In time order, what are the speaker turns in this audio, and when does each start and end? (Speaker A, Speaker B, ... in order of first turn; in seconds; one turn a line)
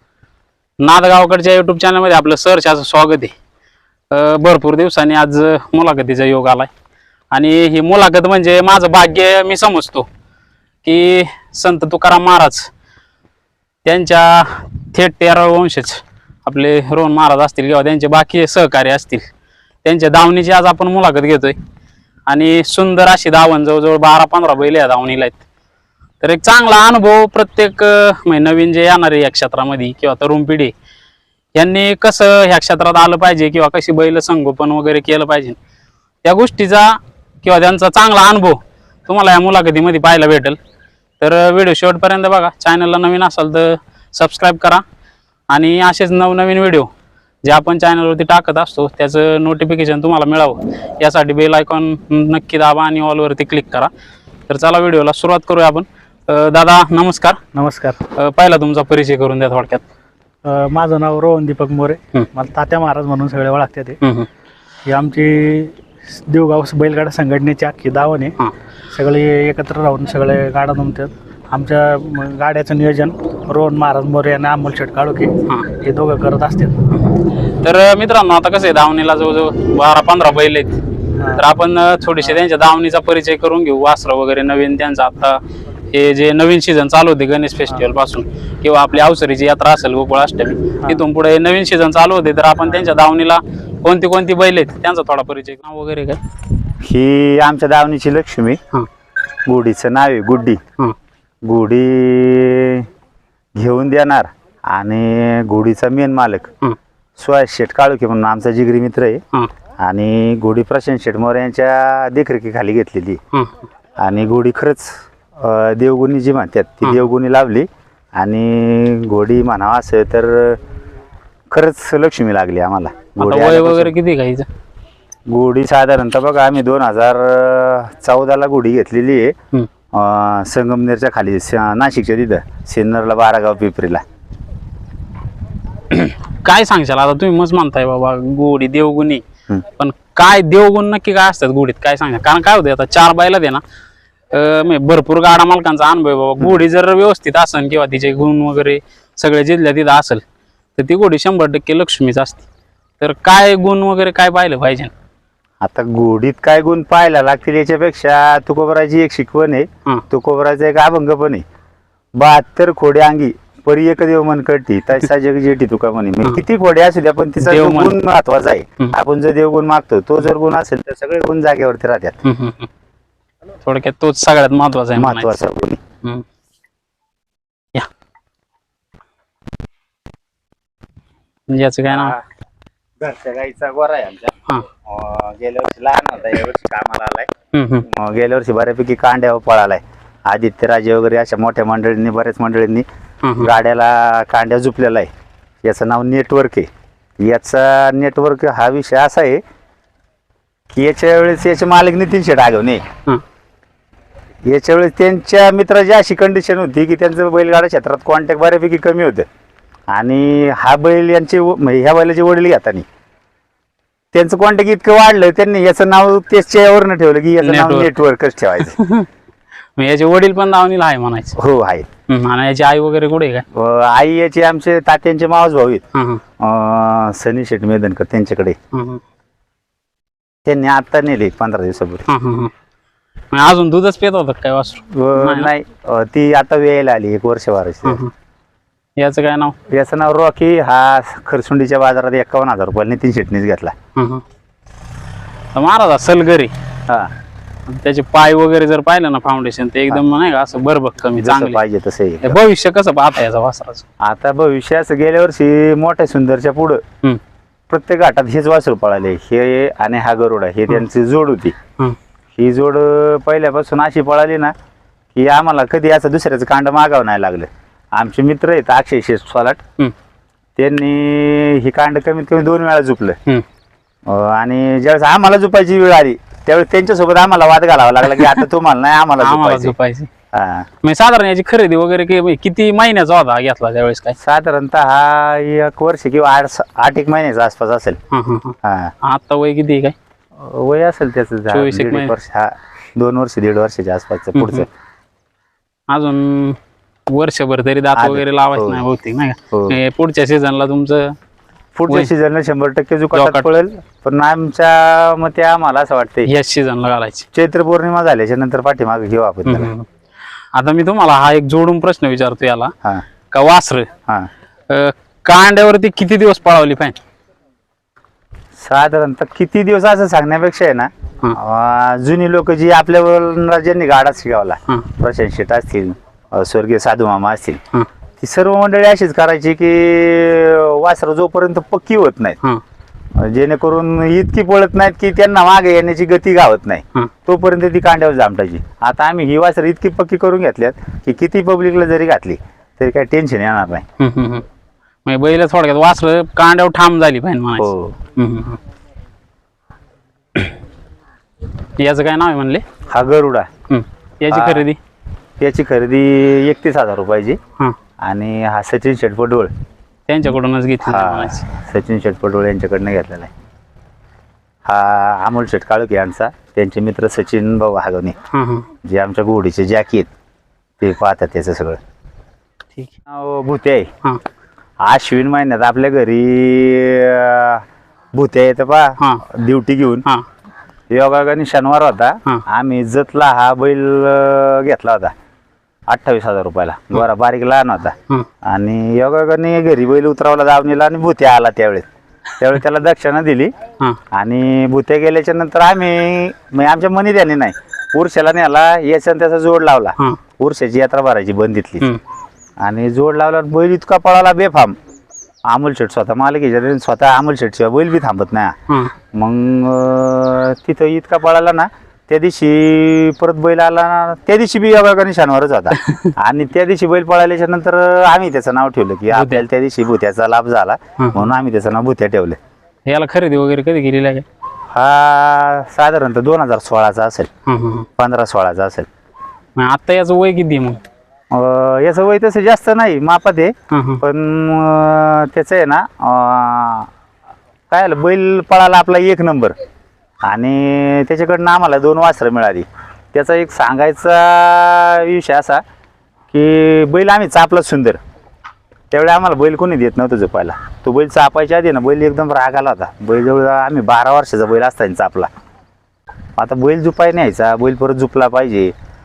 Speaker A: 0.8-3.3
Speaker A: 4.1-6.7
Speaker A: 7.3-10.1
Speaker A: 10.8-12.7
Speaker A: 13.8-19.3
Speaker A: 19.8-21.6
Speaker A: 22.3-25.4
Speaker A: 26.2-30.7
Speaker A: 31.6-35.6
Speaker A: 36.2-40.6
Speaker A: 41.2-44.8
Speaker A: 45.5-46.9
Speaker A: 47.4-53.9
Speaker A: 54.5-57.4
Speaker B: 57.5-58.0
Speaker A: 58.1-59.9
Speaker B: 60.4-64.0
Speaker A: 64.0-64.3
Speaker B: 64.9-68.4
Speaker B: 68.9-77.0
Speaker A: 77.5-80.8
Speaker B: 81.2-81.5
Speaker A: 81.3-85.4
Speaker A: 85.9-96.2
Speaker C: 96.8-98.6
Speaker C: 99.5-100.6
Speaker C: 101.5-102.9
Speaker C: 103.5-106.5
Speaker C: 107.2-109.2
Speaker C: 109.8-113.2
Speaker A: 113.3-113.7
Speaker C: 114.0-120.6
Speaker C: 121.5-123.9
Speaker A: 123.2-124.5
Speaker C: 125.3-129.4
Speaker C: 129.9-134.0
Speaker A: 135.9-139.2
Speaker A: 139.8-143.6
Speaker A: 144.3-150.2
Speaker A: 150.8-152.4
Speaker A: 153.0-154.9
Speaker C: 155.6-161.4
Speaker C: 162.2-172.2
Speaker A: 167.4-168.0
Speaker A: 172.2-172.7
Speaker A: 173.6-175.4
Speaker C: 175.0-175.8
Speaker A: 181.5-182.2
Speaker C: 181.9-182.2
Speaker C: 183.0-187.3
Speaker A: 187.5-187.9
Speaker C: 187.9-192.8
Speaker A: 193.2-193.5
Speaker C: 193.4-195.1
Speaker C: 195.6-196.7
Speaker C: 197.2-199.4
Speaker C: 200.7-202.8
Speaker C: 204.5-209.3
Speaker C: 209.9-212.8
Speaker C: 214.1-218.8
Speaker A: 217.4-217.9
Speaker A: 218.6-219.1
Speaker A: 219.8-221.4
Speaker C: 221.4-221.9
Speaker A: 222.1-223.5
Speaker C: 223.5-225.8
Speaker A: 225.9-226.2
Speaker C: 226.4-228.6
Speaker A: 228.7-229.0
Speaker C: 230.4-232.1
Speaker A: 232.1-232.5
Speaker A: 233.3-235.5
Speaker C: 234.9-238.0
Speaker A: 237.8-238.1
Speaker A: 239.0-239.6
Speaker C: 239.7-243.7
Speaker A: 243.9-244.2
Speaker A: 245.5-246.5
Speaker A: 247.7-251.6
Speaker C: 251.2-252.4
Speaker A: 252.2-253.9
Speaker C: 254.0-256.8
Speaker C: 257.7-261.6
Speaker C: 262.4-264.5
Speaker C: 265.1-269.6
Speaker C: 270.6-273.2
Speaker C: 274.1-279.7
Speaker A: 279.2-280.1
Speaker C: 280.3-280.7
Speaker A: 280.8-284.2
Speaker C: 284.2-288.0
Speaker A: 288.1-289.9
Speaker C: 288.6-288.9
Speaker C: 290.4-294.7
Speaker A: 291.5-292.1
Speaker A: 294.4-294.7
Speaker A: 295.9-301.2
Speaker C: 298.0-298.8
Speaker C: 299.5-299.8
Speaker C: 301.8-306.3
Speaker A: 303.1-303.5
Speaker A: 306.3-307.3
Speaker C: 307.3-309.7
Speaker A: 309.5-309.9
Speaker A: 310.5-312.7
Speaker A: 313.3-313.9
Speaker A: 314.7-317.0
Speaker C: 318.6-327.6
Speaker C: 328.2-332.4
Speaker C: 333.1-343.9
Speaker A: 344.0-344.4
Speaker A: 345.1-348.6
Speaker C: 347.6-348.0
Speaker A: 351.8-352.6
Speaker C: 352.9-353.5
Speaker A: 353.7-354.8
Speaker C: 354.3-354.7
Speaker C: 355.4-357.4
Speaker C: 358.0-359.5
Speaker A: 360.1-361.5
Speaker C: 360.8-363.3
Speaker C: 364.7-368.2
Speaker A: 368.3-368.7
Speaker C: 368.8-370.1
Speaker C: 370.8-371.8
Speaker C: 373.1-373.9
Speaker C: 374.8-380.1
Speaker C: 380.9-385.1
Speaker C: 385.9-391.9
Speaker C: 392.4-393.5
Speaker C: 394.1-401.9
Speaker C: 402.6-404.8
Speaker C: 405.5-408.6
Speaker C: 409.1-422.4
Speaker A: 419.1-419.5
Speaker A: 421.0-421.3
Speaker A: 422.9-424.3
Speaker C: 424.7-427.3
Speaker A: 427.5-427.9
Speaker C: 428.0-428.9
Speaker A: 429.6-430.8
Speaker C: 431.3-436.9
Speaker A: 433.7-434.0
Speaker C: 437.7-439.6
Speaker C: 440.2-445.6
Speaker C: 446.3-448.0
Speaker C: 448.9-455.3
Speaker C: 456.4-458.7